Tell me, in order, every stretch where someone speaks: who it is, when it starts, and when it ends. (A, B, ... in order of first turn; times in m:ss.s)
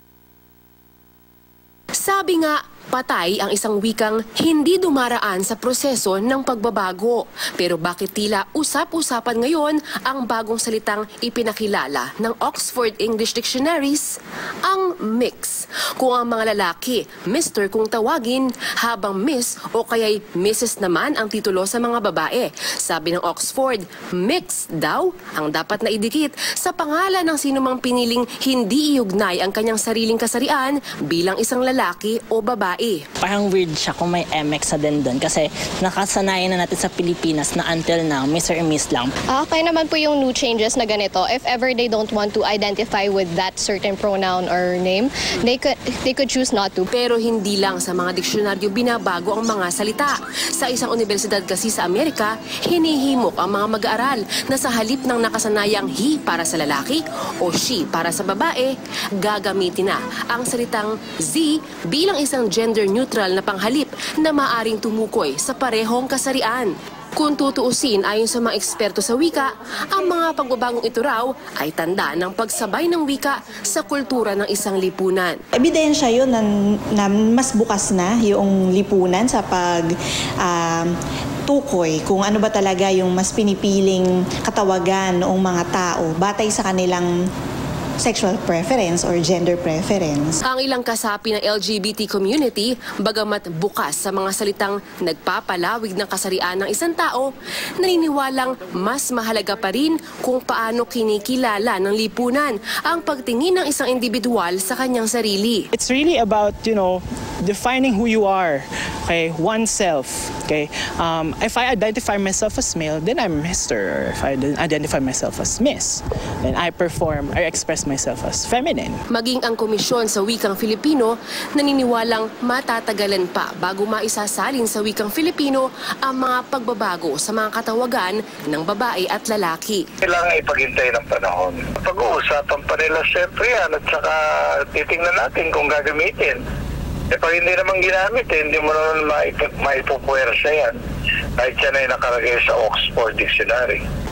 0:02.0-0:33.0 A
0:33.2-0:39.1 B
0:39.3-0:46.9 C
0:46.9-1:15.4 A
1:15.5-1:20.9 D
1:21.5-1:27.1 D
1:28.0-1:30.4 D
1:30.4-1:45.7 A
1:45.7-1:59.0 E
1:59.1-2:09.9 A
2:10.3-2:11.6 F
2:12.7-2:14.0 F
2:20.1-2:20.7 F
2:21.4-2:23.8 F